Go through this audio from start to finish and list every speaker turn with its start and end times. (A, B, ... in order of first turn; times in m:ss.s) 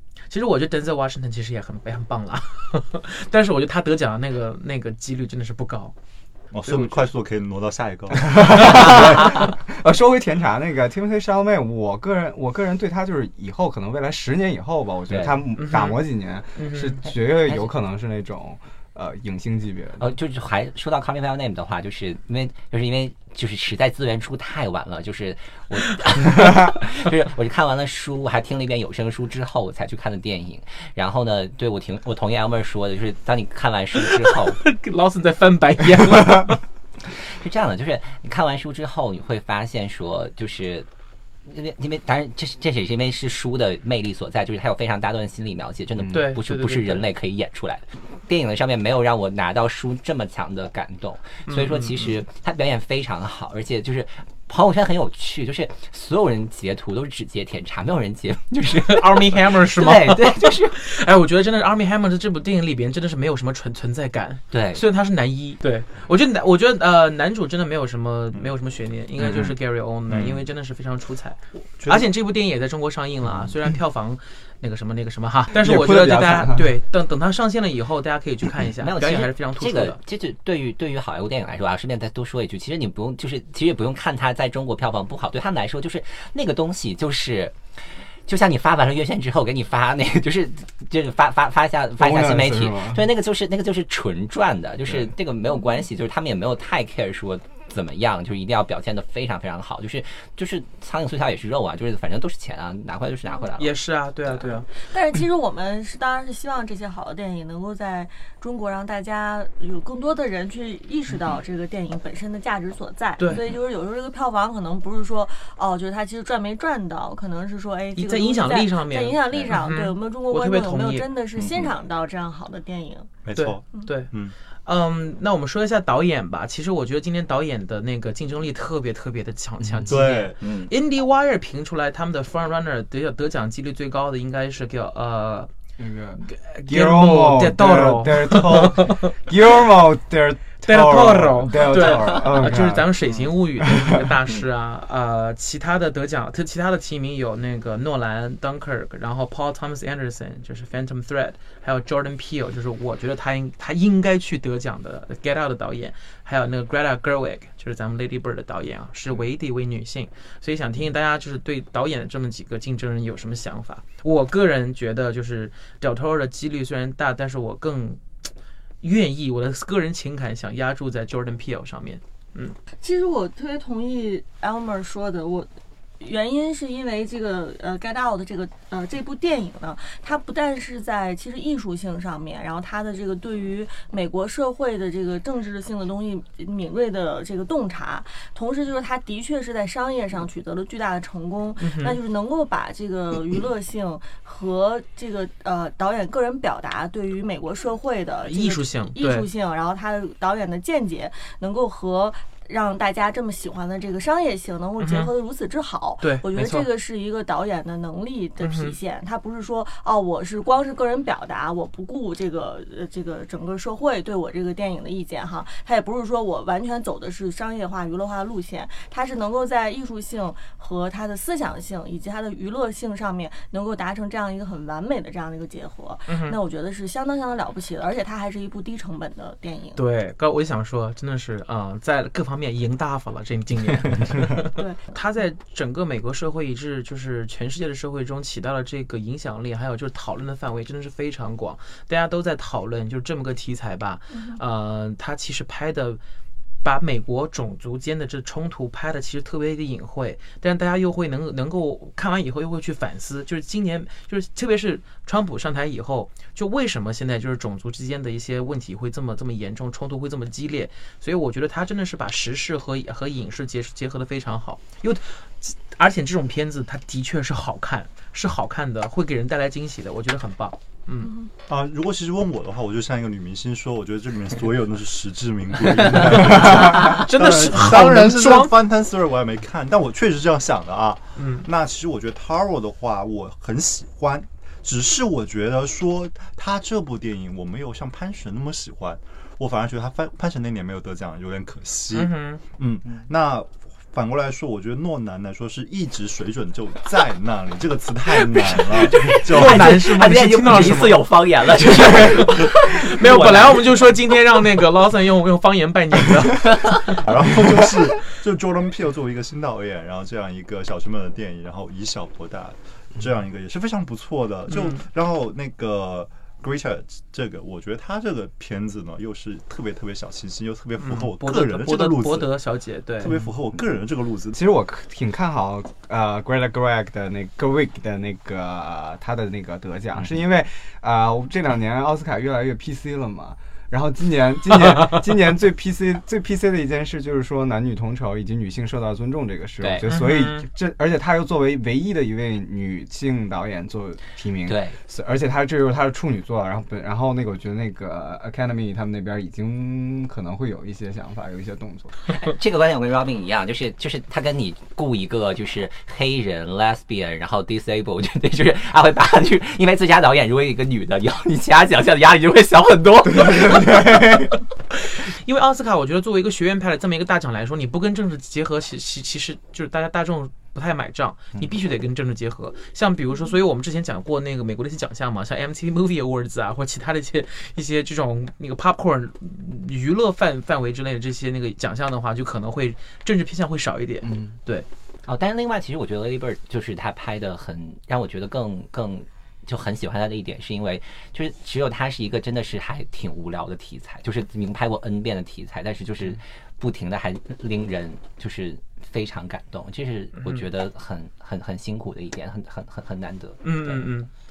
0:00.3-0:06.0 A
0:06.5-0:09.3 B
0:06.6-0:07.1 A
0:08.2-0:20.2 C
0:08.4-0:09.0 A
0:15.1-0:15.4 D
0:15.6-0:16.0 A
0:16.6-0:17.0 A
0:17.3-0:17.7 D
0:20.0-0:34.6 D
0:34.0-0:36.6 A
0:37.2-0:40.9 D
0:41.4-1:00.8 D
0:46.1-0:47.1 A
0:51.5-0:52.1 A
0:58.8-1:20.0 A
1:04.5-1:04.8 D
1:10.1-1:10.5 B
1:11.8-1:12.1 B
1:15.5-1:16.8 C
1:18.8-1:43.8 D
1:32.0-1:33.0 C
1:43.6-1:44.7 A
1:44.7-2:03.1 E
1:53.2-1:53.4 A
1:58.0-2:01.1 A
2:01.4-2:01.7 B
2:03.2-2:04.4 B
2:03.4-2:04.1 A
2:04.6-2:15.5 A
2:09.9-2:10.7 B
2:10.4-2:10.7 D
2:15.8-2:24.1 C
2:16.2-2:19.2 A
2:20.6-2:48.0 A
2:48.8-2:52.6 A
2:52.8-3:49.8 E
3:11.6-3:12.0 A
3:18.3-3:19.3 A
3:24.8-3:25.1 A
3:26.0-3:26.7 A
3:28.4-3:28.7 A
3:46.1-3:46.4 A
3:49.8-4:06.0 A
3:54.6-3:54.9 E
4:04.1-4:04.4 E
4:06.6-4:31.1 A
4:31.0-4:31.3 E
4:31.5-5:00.8 B
4:36.4-4:38.5 A
4:41.2-4:41.5 A
4:51.9-4:52.4 A
4:58.2-5:07.0 A
4:59.0-5:03.9 D
5:06.8-5:22.4 B
5:14.5-5:14.8 A
5:20.8-5:23.1 A
5:23.0-5:24.4 B
5:24.3-5:52.0 C
5:39.6-5:39.9 D
5:39.9-5:40.5 A
5:44.5-5:44.8 D
5:52.2-6:03.8 D
6:03.1-6:04.3 C
6:04.8-6:24.7 A
6:24.0-6:24.4 C
6:25.0-6:43.9 D
6:43.4-6:44.1 A